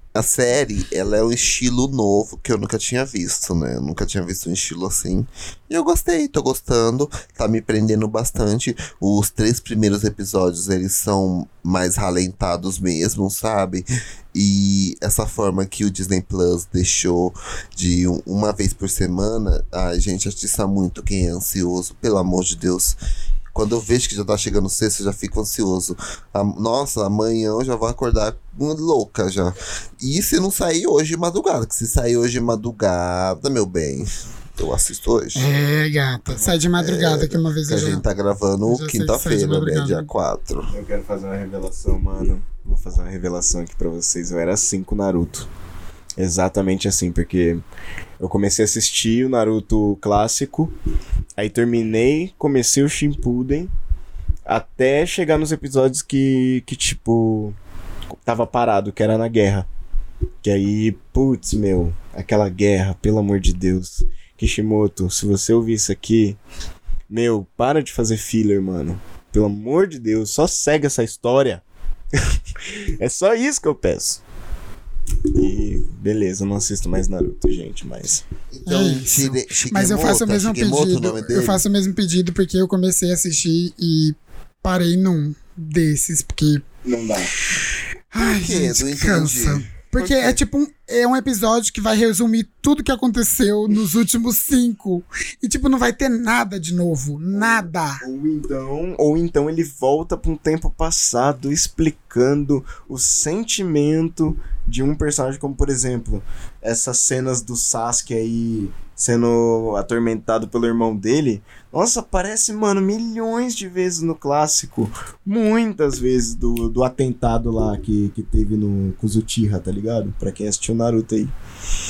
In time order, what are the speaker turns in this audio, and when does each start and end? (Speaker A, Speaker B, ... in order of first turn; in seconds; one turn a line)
Speaker A: 0.1-23.0
Speaker A: 23.5-35.5
Speaker B: 35.4-38.0
Speaker A: 36.8-40.7
Speaker B: 38.7-40.1
Speaker C: 40.7-45.5
Speaker C: 46.2-47.6
Speaker C: 48.2-50.7
Speaker C: 51.4-53.7
Speaker C: 54.5-57.6
Speaker C: 58.2-59.7
Speaker C: 60.4-66.4
Speaker C: 67.1-74.2
Speaker C: 75.3-78.2
Speaker A: 78.5-81.6
Speaker B: 78.7-86.6
Speaker C: 86.8-87.3
Speaker B: 88.1-98.0
Speaker A: 88.2-89.7
Speaker C: 90.0-90.3
Speaker C: 97.3-121.3